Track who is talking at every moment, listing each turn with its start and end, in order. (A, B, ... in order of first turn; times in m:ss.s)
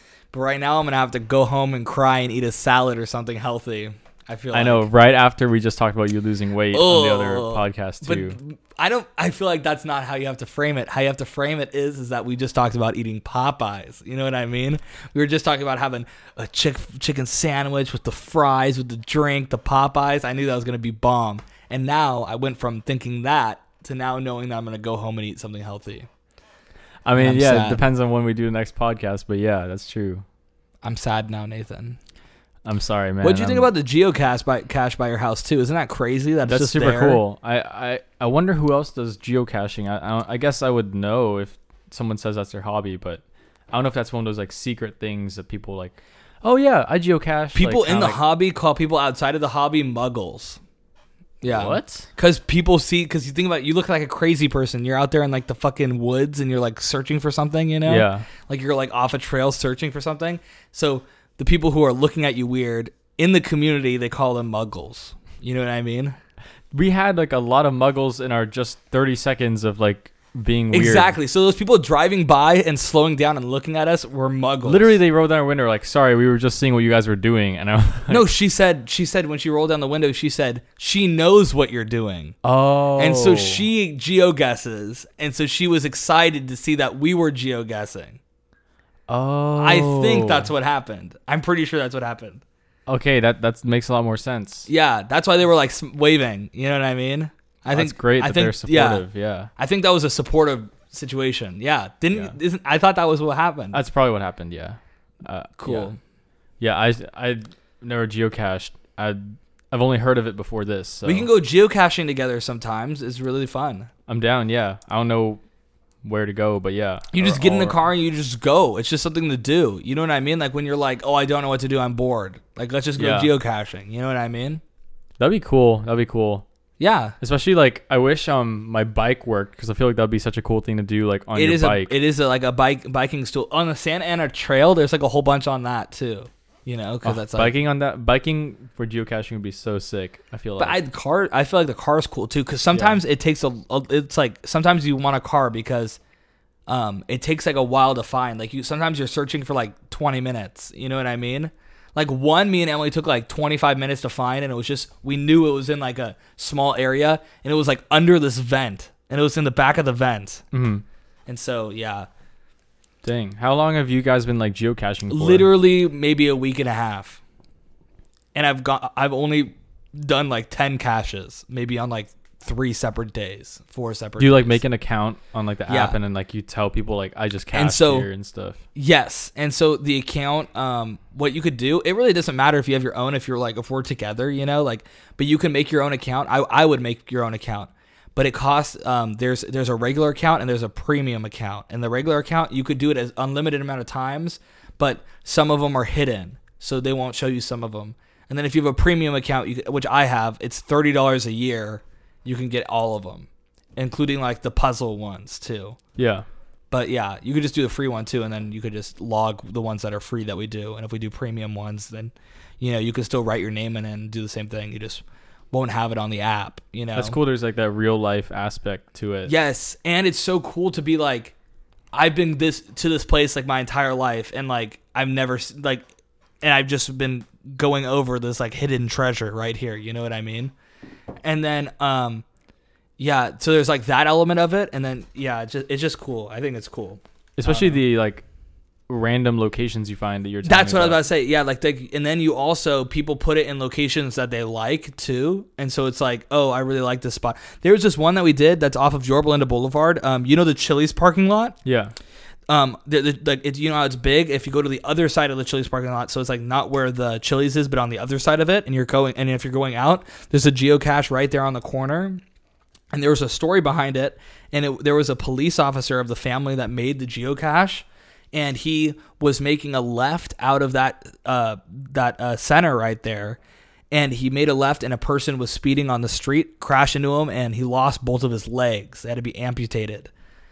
0:00.3-0:04.9 A
0:04.5-0:08.4 B
0:06.7-0:26.1 A
0:27.0-0:30.2 B
0:27.2-0:27.8 A
0:30.8-0:32.0 A
0:32.6-0:33.7 B
0:33.2-0:37.2 A
0:36.5-0:48.2 B
0:47.6-0:50.6 A
0:51.4-1:06.2 A
0:51.5-0:52.1 B
0:57.8-0:58.3 B
1:06.7-1:11.1 B
1:10.7-1:15.0 A
1:14.6-1:18.2 B
1:18.1-1:22.4 A
1:22.4-1:23.6 B
1:23.0-1:28.2 A
1:29.1-1:30.5 B
1:29.6-1:32.4 A
1:32.9-1:34.7 B
1:34.7-1:43.8 A
1:37.7-1:39.5 B
1:43.7-1:45.9 B
1:45.6-1:46.0 A
1:46.6-1:51.3 B
1:51.0-1:53.9 A
1:54.1-1:55.4 B
1:56.0-1:57.8 B
1:57.1-2:04.6 A
2:03.0-2:03.3 B
2:05.2-2:06.5 B
2:06.8-2:07.2 A
2:07.2-2:12.0 B
2:11.4-2:17.5 A
2:17.0-2:20.8 B
2:20.6-2:26.0 A
2:22.7-2:23.0 B
2:26.7-2:40.4 A
2:40.5-2:40.8 B
2:41.3-2:42.1 A
2:43.0-2:45.5 B
2:45.1-2:47.2 A
2:48.3-2:54.6 A
2:54.2-2:58.6 B
2:55.7-2:56.0 A
2:57.5-2:58.1 A
2:58.8-3:25.8 A
3:26.0-3:26.2 B
3:26.7-3:37.2 A
3:37.0-3:39.3 B
3:39.3-3:41.3 A
3:41.9-3:45.9 A
3:46.4-3:50.5 A
3:51.2-3:52.2 A
3:53.0-3:57.8 A
3:57.4-3:58.2 B
3:58.9-4:01.0 B
4:00.4-4:11.6 A
4:11.6-4:11.9 B
4:12.5-4:22.2 A
4:22.9-4:33.4 A
4:33.9-4:40.1 A